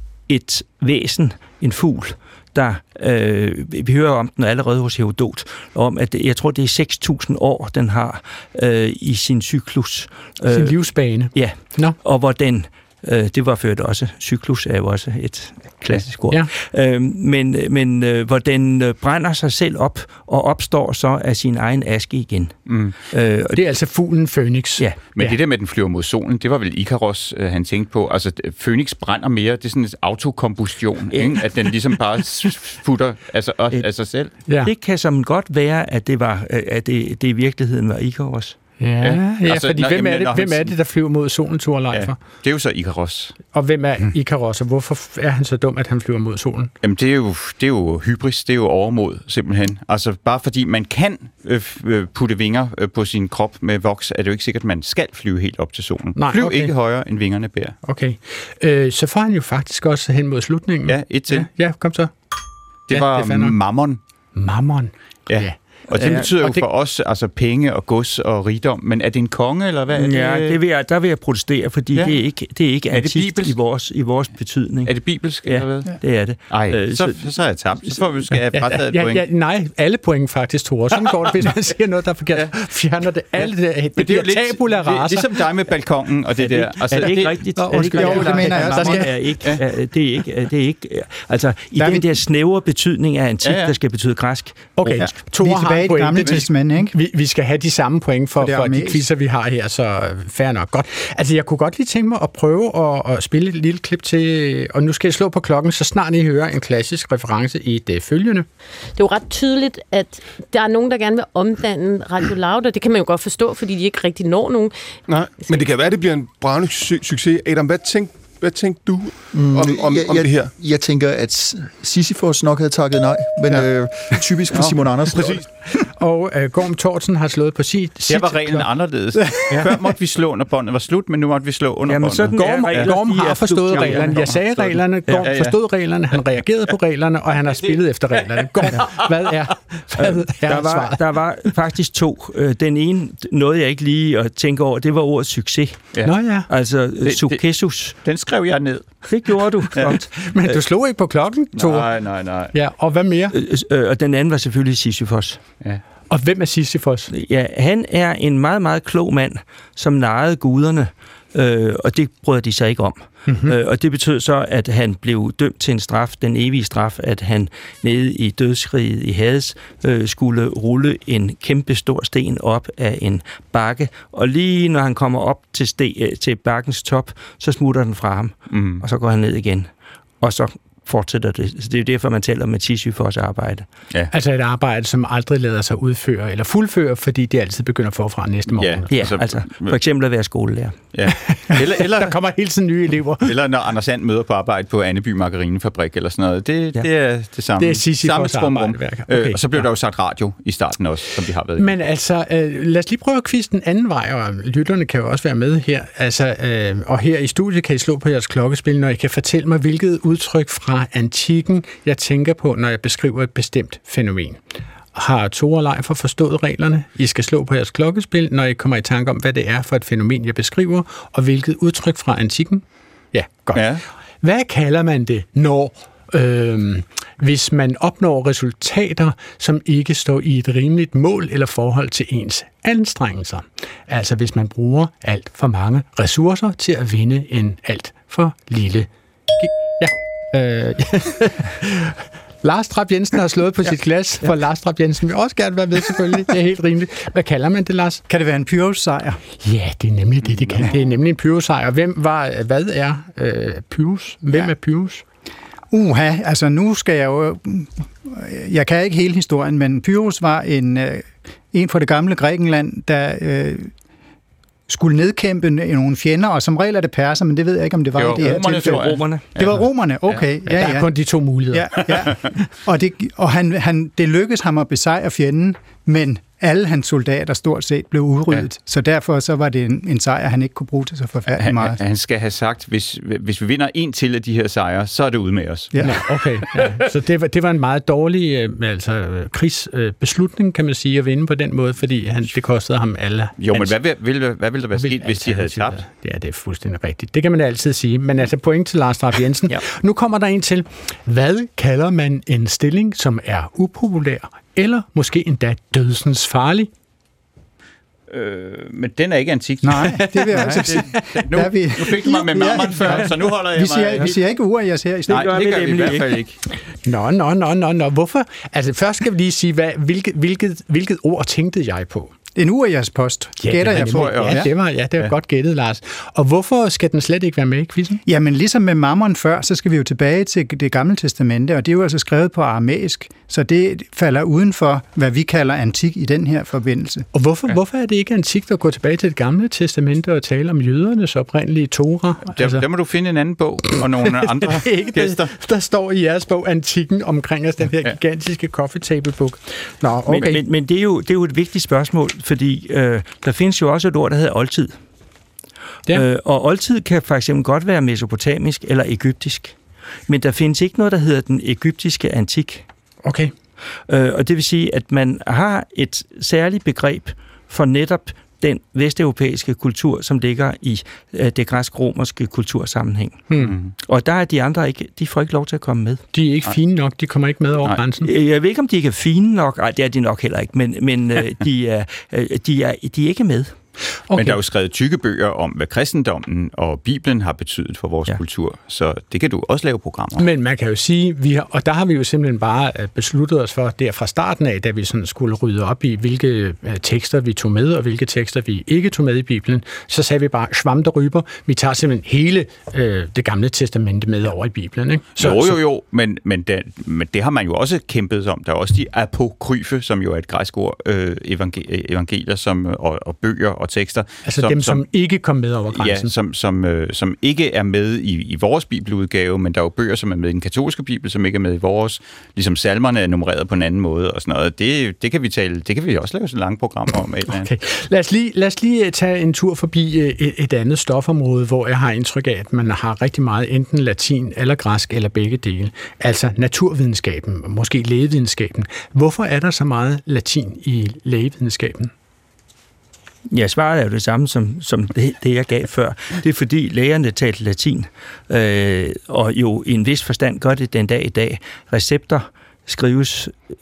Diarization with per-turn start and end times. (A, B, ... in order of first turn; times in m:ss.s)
0:00.3-0:23.6 A
0:10.5-0:12.0 B
0:22.7-0:22.9 C
0:23.5-0:25.4 B
0:25.1-0:34.3 C
0:31.1-0:31.4 A
0:34.5-0:34.7 B
0:34.6-0:38.6 A
0:38.8-0:42.2 B
0:39.0-0:40.7 C
0:41.9-0:43.4 C
0:43.5-0:46.7 B
0:46.8-0:57.8 C
0:56.1-0:56.7 B
0:57.8-1:02.1 B
1:00.8-1:01.5 C
1:02.9-1:04.0 C
1:02.9-1:03.6 B
1:04.4-1:06.7 B
1:05.3-1:10.6 C
1:05.9-1:06.3 A
1:09.9-1:17.3 A
1:12.9-1:13.5 C
1:14.8-1:15.9 C
1:16.5-1:19.2 C
1:18.5-1:25.3 B
1:23.4-1:29.6 C
1:26.4-1:35.1 A
1:26.9-1:29.1 B
1:27.6-1:29.0 D
1:31.7-1:32.1 D
1:33.4-1:33.7 C
1:34.8-1:48.5 B
1:35.0-1:36.9 D
1:38.4-1:39.0 D
1:49.0-1:54.7 E
1:55.1-2:00.5 F
1:55.4-1:55.7 E
1:59.3-2:05.5 G
2:03.5-2:05.4 F
2:06.0-2:08.7 B
2:08.1-2:15.6 C
2:11.9-2:14.3 A
2:12.3-2:21.0 B
2:18.4-2:18.9 C
2:20.4-2:25.9 A
2:26.0-2:26.5 B
2:26.5-2:28.0 A
2:27.0-2:30.0 C
2:29.1-2:30.6 A
2:30.2-2:31.9 B
2:31.5-2:32.5 C
2:32.5-2:33.3 B
2:33.3-2:35.4 A
2:36.1-2:37.1 B
2:37.1-2:59.7 A
2:43.3-2:43.5 B
2:58.5-2:58.8 C
3:00.2-3:03.6 A
3:04.1-3:08.9 B
3:08.5-3:09.8 C
3:08.9-3:10.8 A
3:10.9-3:12.2 C
3:11.1-3:13.3 B
3:13.2-3:21.7 C
3:17.6-3:19.7 B
3:21.6-3:34.4 B
3:34.9-4:08.0 B
3:43.5-3:43.8 C
4:08.1-4:09.2 D
4:09.4-4:15.0 B
4:10.2-4:10.7 C
4:15.7-4:23.7 D
4:24.7-4:31.0 D
4:28.0-4:29.6 C
4:28.2-4:29.2 A
4:30.4-4:31.9 B
4:31.5-4:41.8 D
4:41.3-4:45.8 C
4:45.7-4:46.0 D
4:45.8-4:53.8 B
4:53.4-4:55.8 C
4:54.7-5:06.7 B
5:08.1-5:14.2 C
5:09.6-5:15.4 D
5:10.0-5:11.3 B
5:12.0-5:13.1 B
5:15.1-5:16.3 A
5:15.1-5:16.4 C
5:16.8-5:22.1 B
5:22.3-5:24.5 D
5:23.4-5:28.0 B
5:23.7-5:25.1 C
5:28.0-5:37.1 D
5:37.1-5:42.6 B
5:42.3-5:45.3 C
5:44.4-5:50.4 B
5:50.1-5:54.8 A
5:55.9-5:59.6 A
6:00.1-6:02.6 A
6:03.0-6:03.3 B
6:03.9-6:13.3 A
6:13.3-6:13.6 B
6:13.4-6:13.7 C
6:13.9-6:16.0 A
6:16.1-6:18.1 B
6:18.0-6:23.5 A
6:24.1-6:24.4 B
6:24.1-6:30.2 C
6:30.2-6:45.6 B
6:45.2-6:54.8 C
6:54.2-6:56.1 B
6:55.7-7:07.5 C
7:07.3-7:21.9 B
7:23.3-7:33.3 A